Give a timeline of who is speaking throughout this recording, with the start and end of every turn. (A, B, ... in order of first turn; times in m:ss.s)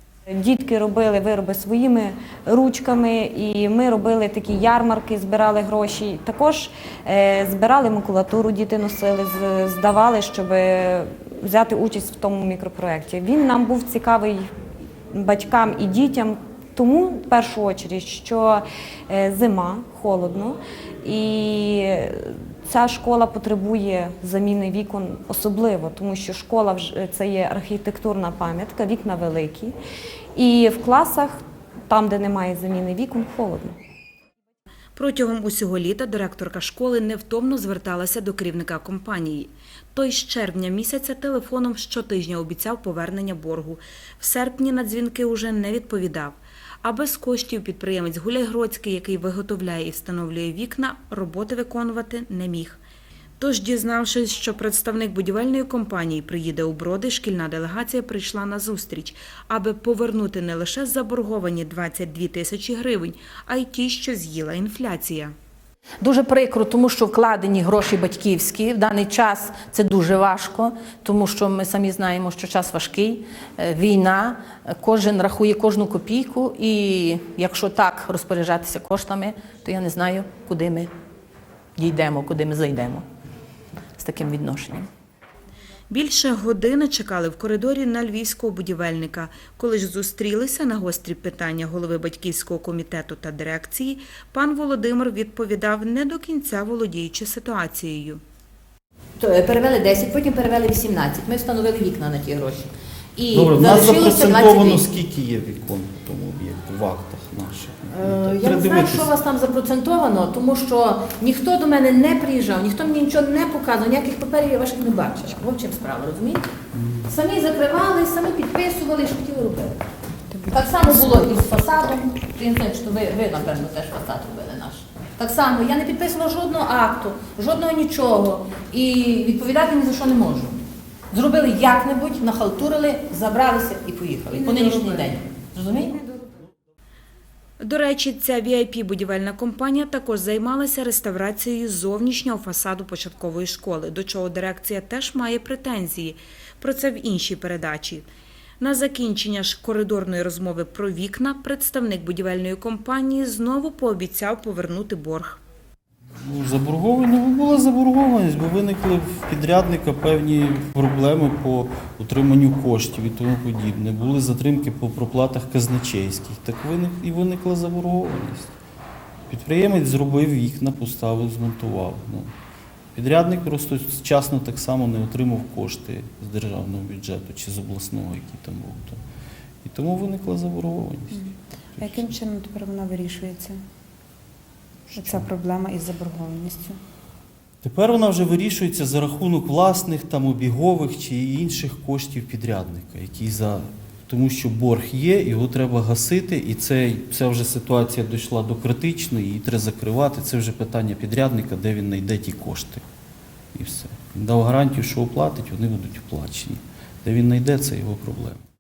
0:00.3-0:14.5 A
0:15.1-0:29.7 A
0:30.3-0:33.8 A
0:35.0-0:52.8 B
0:53.4-1:05.3 B
1:06.0-1:20.9 C
1:21.8-1:23.0 C
1:24.0-1:24.9 C
1:25.9-1:38.2 B
1:39.2-1:44.9 C
1:43.3-1:49.1 D
1:47.9-1:56.5 C
1:56.8-1:57.1 D
1:57.1-1:59.8 C
2:00.3-2:01.1 E
2:00.5-2:16.0 C
2:17.6-2:28.1 B
2:28.6-2:35.4 B
2:36.1-2:48.6 D
2:49.3-2:52.3 D
2:53.0-2:59.0 D
2:59.6-3:02.1 D
3:01.8-3:03.6 E
3:04.9-3:06.8 E
3:05.0-3:05.3 D
3:07.6-3:22.8 D
3:23.5-3:28.4 D